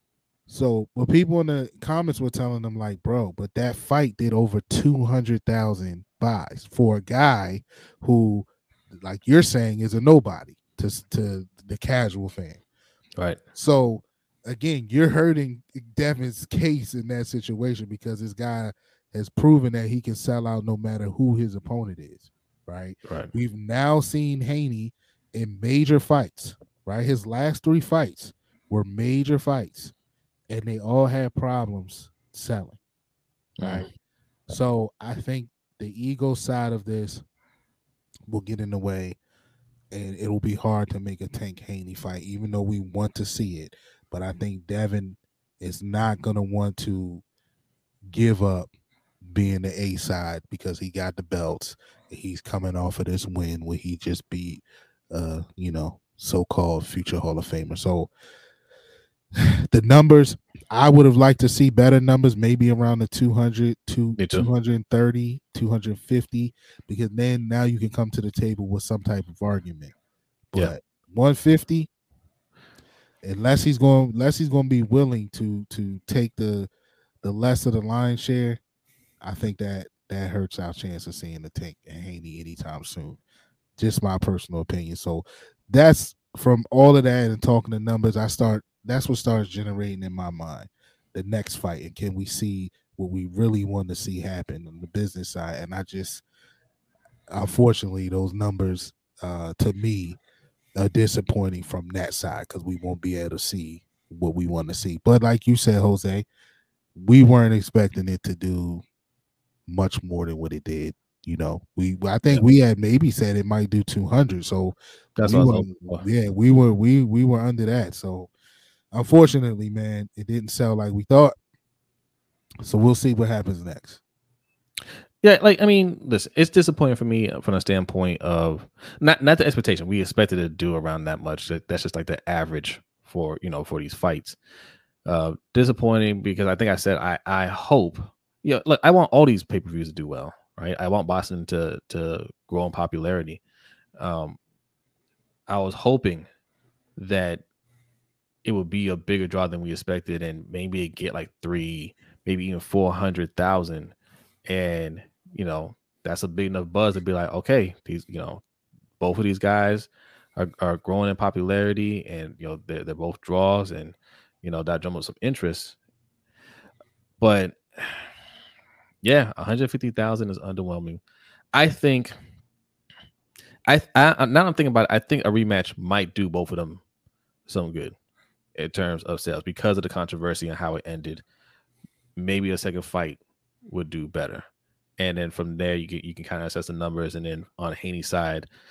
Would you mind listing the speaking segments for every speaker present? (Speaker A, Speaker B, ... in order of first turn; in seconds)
Speaker A: 0.5-12.6, 13.5-29.9, 30.5-32.8, 33.6-33.9, 34.5-37.2, 38.3-39.2, 39.9-47.2, 48.1-48.7, 49.2-58.1, 59.7-69.9, 70.5-71.9, 73.2-76.7, 77.2-78.6, 79.2-83.2, 83.8-96.2, 97.3-100.2, 100.8-106.3, 107.0-108.8, 109.7-118.3, 118.9-121.4, 122.6-124.0
Speaker B: 23.1-23.3, 33.6-33.9, 64.2-64.5, 115.2-116.0, 125.2-134.4, 135.1-143.4, 144.0-144.4, 145.5-146.3, 147.0-147.4, 148.4-153.9, 154.5-158.4, 159.0-165.8, 167.2-168.1, 169.0-171.0, 171.5-172.1, 173.7-176.8, 177.5-177.9, 178.6-181.2, 182.2-184.4, 185.0-188.5